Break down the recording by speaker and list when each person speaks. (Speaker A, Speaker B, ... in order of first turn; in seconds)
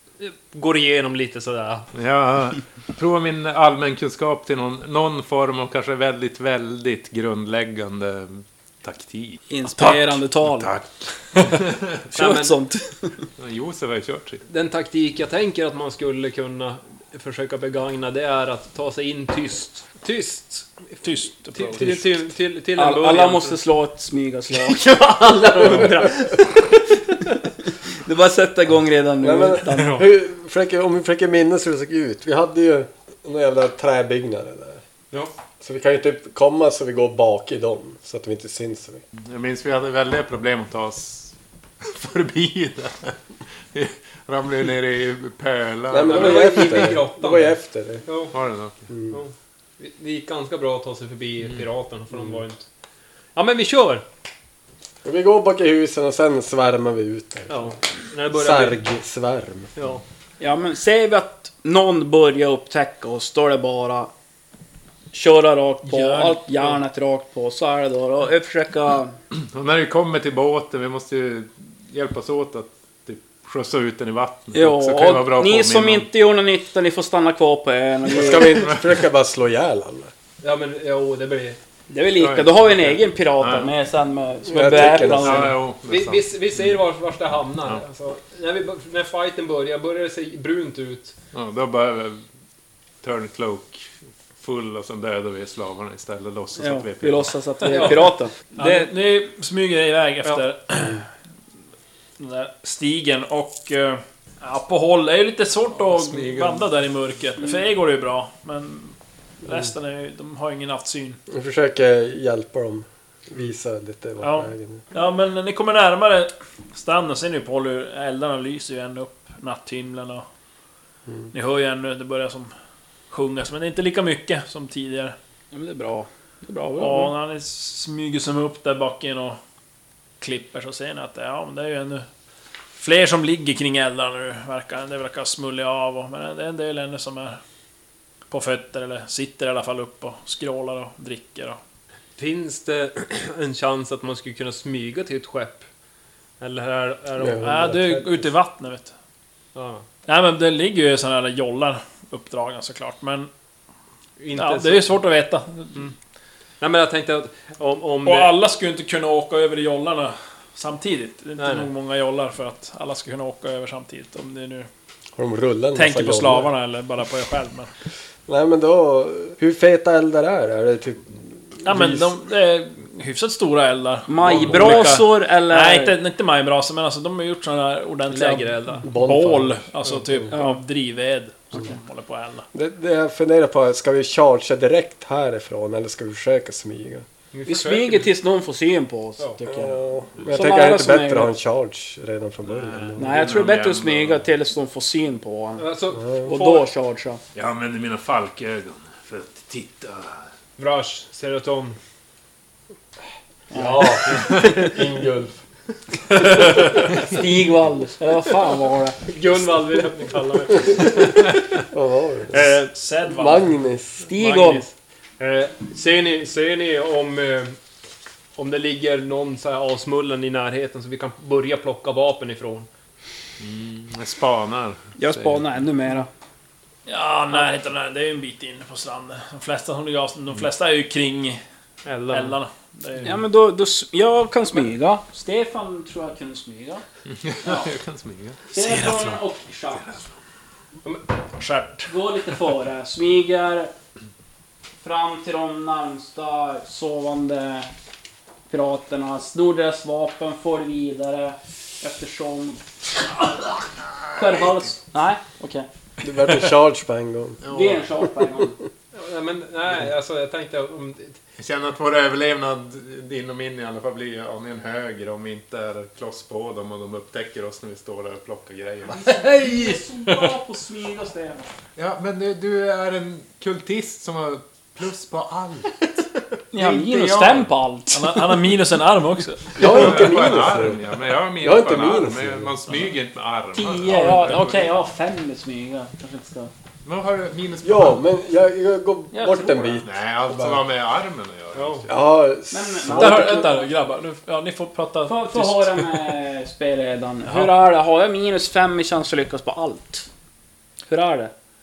Speaker A: 0.2-1.9, 12.1-12.5, 14.4-20.7, 21.5-23.5, 24.6-26.1, 29.8-30.0, 46.0-48.3, 49.1-52.6, 53.3-54.0, 57.5-58.8, 59.8-60.0, 80.4-81.6, 85.8-91.1, 97.7-98.9, 142.2-145.6, 146.4-147.5, 149.5-149.8, 154.2-155.0, 156.6-158.3, 161.4-161.7, 174.5-174.9, 178.1-178.9, 187.3-188.1, 195.6-196.6, 200.6-201.8, 209.1-211.5, 212.3-212.7, 214.2-214.7, 215.2-217.6, 218.4-222.7, 231.8-232.3, 258.9-261.2, 276.6-277.0, 291.5-291.9
Speaker B: 1.9-12.0, 13.4-14.4, 39.2-43.1, 43.7-46.6, 48.3-48.8, 69.3-76.1, 78.5-78.8, 82.2-83.7, 84.9-86.7, 91.3-92.2, 93.0-97.3, 106.0-106.6, 192.6-194.3, 197.3-200.3, 223.4-225.4, 237.1-240.0, 257.4-257.8, 261.4-269.7, 271.8-275.9, 279.6-284.7, 286.8-288.0, 289.8-292.0
Speaker C: 9.5-10.7, 12.1-13.1, 22.8-26.6, 27.9-30.0, 60.4-64.1, 65.1-69.1, 74.5-78.7, 81.9-85.5, 96.6-98.3, 125.5-127.1, 174.1-176.0, 180.3-180.6, 187.5-189.7, 190.3-191.3, 193.0-197.2, 203.5-204.7, 206.2-209.0, 214.1-214.7, 225.0-226.1, 233.0-236.8, 237.4-237.7, 238.5-239.9, 241.9-243.7, 244.8-247.7, 248.5-253.6, 254.1-255.7, 257.5-258.6, 268.9-271.5, 276.5-278.3, 283.5-286.5, 289.1-289.8, 292.5-293.7, 295.1-300.1, 300.9-301.3
Speaker D: 21.0-22.1, 65.8-66.7, 98.5-101.1, 102.2-111.2, 114.2-120.2, 121.3-122.5, 123.1-125.2, 126.8-129.4, 130.2-132.1, 132.8-137.4, 138.3-141.6, 147.4-148.9, 150.1-153.3, 154.3-155.9, 158.0-164.7, 165.7-167.7, 171.6-182.4, 212.7-213.5, 226.9-231.4, 232.1-233.2, 241.4-241.9, 276.9-279.9, 283.9-284.3, 292.9-296.1, 297.3-297.5
Speaker E: 29.2-34.8, 35.6-39.0, 45.9-48.0, 48.9-49.2, 55.0-57.7, 58.3-59.7, 78.0-80.1, 84.5-85.5, 111.3-114.8, 147.2-148.3, 165.2-166.5, 168.3-172.1, 178.8-179.6, 182.5-187.1, 189.4-193.3, 195.9-196.3, 203.5-205.4, 210.8-211.2, 211.7-212.5, 213.1-214.1, 256.0-257.4, 279.6-280.8, 281.4-282.6, 287.6-290.6, 291.9-293.5